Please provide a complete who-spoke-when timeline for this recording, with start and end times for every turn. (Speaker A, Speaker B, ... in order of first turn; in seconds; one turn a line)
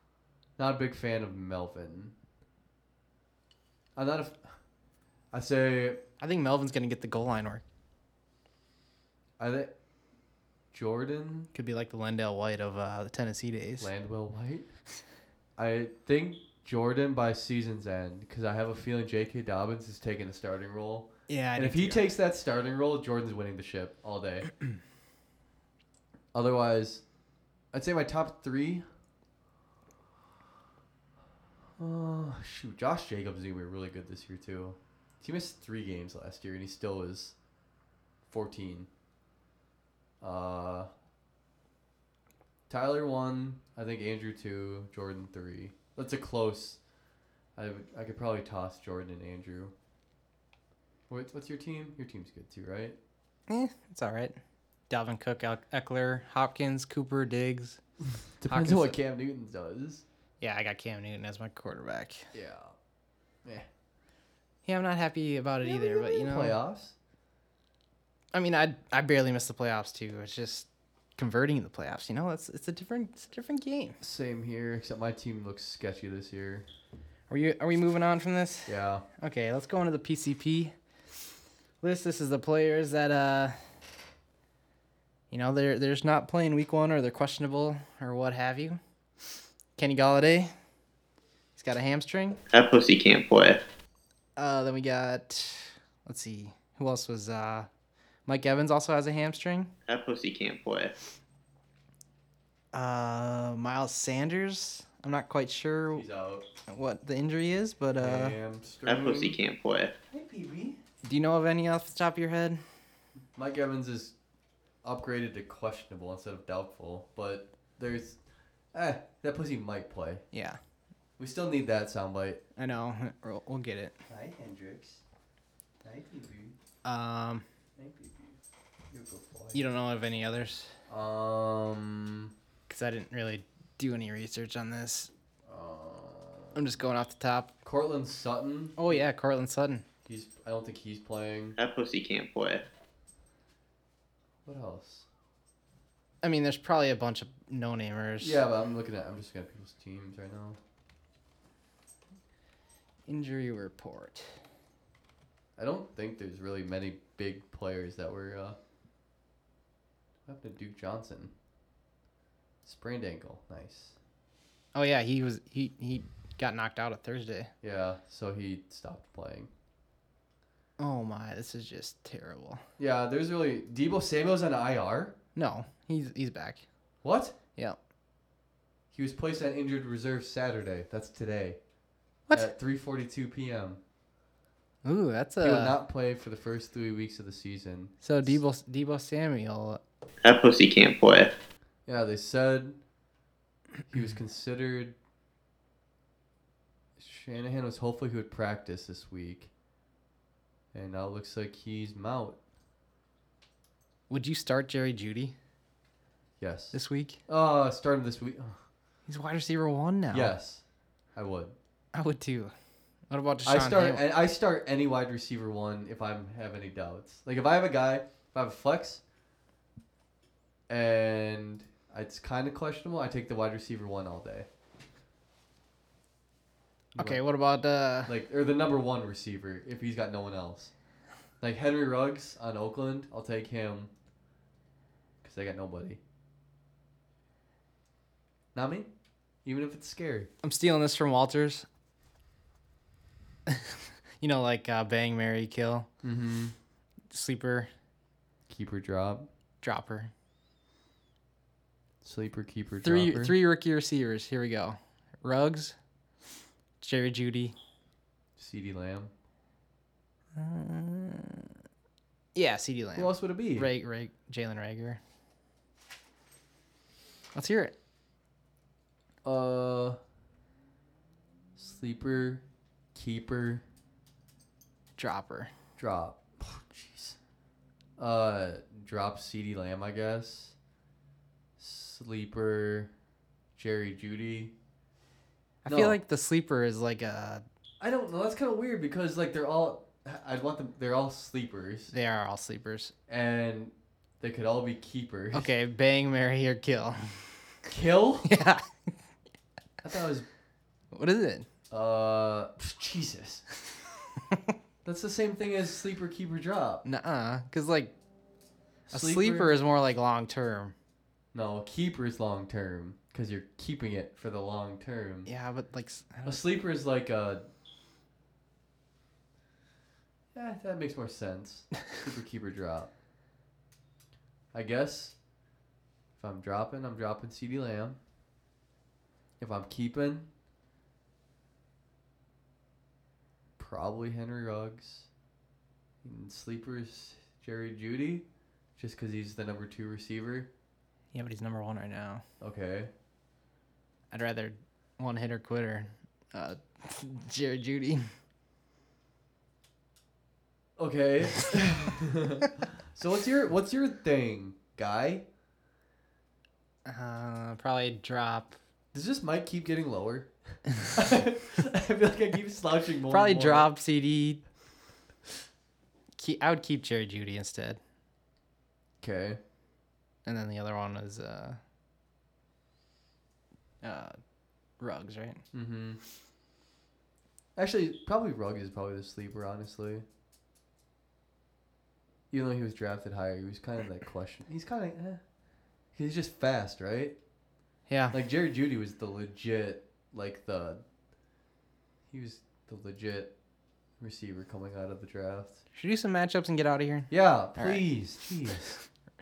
Speaker A: 0.6-2.1
Speaker A: 4.0-4.6
Speaker A: 5.3-6.0
Speaker B: 6.2-7.6
Speaker A: 9.4-9.7
Speaker A: 10.7-11.5
Speaker B: 11.5-13.9
Speaker A: 13.8-14.7
Speaker A: 15.6-24.5
Speaker B: 21.3-22.1
Speaker A: 26.3-27.0
Speaker A: 27.7-28.9
Speaker A: 31.8-37.4
Speaker A: 38.3-38.9
Speaker A: 40.2-40.9
Speaker A: 42.7-46.8
Speaker A: 47.6-49.7
Speaker A: 51.1-53.0
Speaker B: 53.5-54.4
Speaker B: 54.9-57.8
Speaker A: 58.4-60.0
Speaker B: 58.5-59.0
Speaker B: 60.4-62.3
Speaker A: 62.3-62.7
Speaker B: 64.7-66.6
Speaker A: 65.6-67.0
Speaker B: 68.3-74.0
Speaker A: 74.0-76.7
Speaker B: 77.3-80.7
Speaker A: 78.7-79.0
Speaker B: 81.8-83.6
Speaker B: 85.3-88.8
Speaker B: 89.8-90.5
Speaker B: 91.6-92.4
Speaker C: 92.5-93.6
Speaker B: 94.4-97.7
Speaker B: 98.3-99.7
Speaker C: 99.9-100.9
Speaker B: 102.7-106.1
Speaker A: 105.9-106.5
Speaker B: 106.7-108.4
Speaker A: 108.0-109.4
Speaker C: 108.9-109.9
Speaker A: 110.1-110.8
Speaker B: 111.0-112.6
Speaker A: 113.3-114.1
Speaker A: 114.8-118.2
Speaker A: 118.7-120.2
Speaker B: 120.3-120.6
Speaker A: 121.2-122.4
Speaker B: 122.6-124.0
Speaker A: 124.1-125.0
Speaker A: 125.8-126.6
Speaker B: 126.8-127.5
Speaker A: 127.8-128.4
Speaker A: 128.9-129.6
Speaker B: 129.5-130.7
Speaker A: 130.9-132.3
Speaker B: 132.7-135.1
Speaker A: 135.4-136.7
Speaker B: 136.6-137.5
Speaker A: 137.6-139.0
Speaker B: 138.8-139.8
Speaker A: 140.1-141.6
Speaker C: 141.6-142.6
Speaker A: 144.4-145.1
Speaker B: 146.2-148.4
Speaker A: 148.2-150.6
Speaker B: 153.1-154.3
Speaker A: 155.6-158.6
Speaker A: 160.3-161.3
Speaker A: 162.6-164.0
Speaker B: 164.7-167.5
Speaker A: 167.6-169.5
Speaker B: 170.8-172.6
Speaker A: 172.8-175.2
Speaker B: 175.3-176.6
Speaker A: 177.0-177.4
Speaker A: 178.9-181.6
Speaker B: 182.3-182.5
Speaker A: 182.3-183.8
Speaker B: 184.8-185.8
Speaker A: 185.4-188.4
Speaker B: 188.0-189.8
Speaker C: 190.2-191.3
Speaker A: 191.9-192.8
Speaker A: 193.9-195.0
Speaker A: 197.0-199.5
Speaker A: 200.7-202.4
Speaker B: 204.1-205.3
Speaker A: 206.4-208.6
Speaker B: 206.7-207.2
Speaker B: 209.1-210.3
Speaker A: 210.1-210.6
Speaker A: 211.1-211.6
Speaker B: 211.9-212.5
Speaker B: 213.1-214.1
Speaker A: 213.4-219.0
Speaker A: 220.7-224.5
Speaker A: 226.9-227.2
Speaker B: 227.0-228.2
Speaker A: 228.1-230.7
Speaker A: 231.4-233.9
Speaker A: 235.2-236.0
Speaker A: 238.6-238.9
Speaker A: 239.4-240.3
Speaker B: 240.4-241.7
Speaker B: 243.5-245.9
Speaker A: 246.0-246.6
Speaker B: 247.1-247.7
Speaker A: 248.5-249.3
Speaker B: 249.6-250.1
Speaker A: 252.0-253.4
Speaker B: 252.8-255.8
Speaker B: 256.8-257.6
Speaker A: 258.4-259.1
Speaker B: 260.4-261.5
Speaker B: 262.4-265.0
Speaker A: 262.9-263.7
Speaker B: 267.4-267.7
Speaker A: 269.2-270.0
Speaker A: 271.6-272.4
Speaker A: 272.9-273.6
Speaker B: 275.0-275.5
Speaker A: 275.8-277.2
Speaker A: 278.0-280.6
Speaker A: 281.6-282.9
Speaker A: 283.6-284.5
Speaker B: 285.6-287.4
Speaker A: 285.7-286.0
Speaker A: 287.8-291.9
Speaker B: 291.9-292.9
Speaker A: 293.1-295.5
Speaker B: 295.3-297.4
Speaker A: 297.7-298.3
Speaker B: 298.3-298.7
Speaker A: 299.8-300.3
Speaker B: 300.9-301.5
Speaker A: 301.7-303.4
Speaker A: 304.8-306.8
Speaker B: 306.8-307.9
Speaker A: 308.9-309.6
Speaker B: 308.9-310.7
Speaker A: 311.3-315.3
Speaker B: 315.3-316.4
Speaker A: 316.2-317.5
Speaker A: 320.3-322.9
Speaker A: 324.5-325.2
Speaker A: 326.2-328.0
Speaker A: 329.4-330.3
Speaker A: 333.6-335.1
Speaker A: 336.0-338.3
Speaker A: 338.8-340.5
Speaker B: 341.1-342.2
Speaker A: 342.4-342.9
Speaker B: 344.1-348.1
Speaker A: 350.8-355.3
Speaker B: 356.9-358.6
Speaker A: 358.9-363.7
Speaker B: 363.1-364.4
Speaker B: 366.2-367.8
Speaker A: 369.0-369.4
Speaker B: 370.3-371.6
Speaker B: 373.8-374.2
Speaker B: 374.8-375.4
Speaker A: 375.5-376.0
Speaker A: 377.6-380.1
Speaker A: 382.3-385.2
Speaker A: 385.9-387.2
Speaker B: 387.9-388.2
Speaker A: 388.1-390.8
Speaker A: 392.1-393.3
Speaker A: 394.0-395.6
Speaker B: 395.7-397.9
Speaker A: 397.1-398.8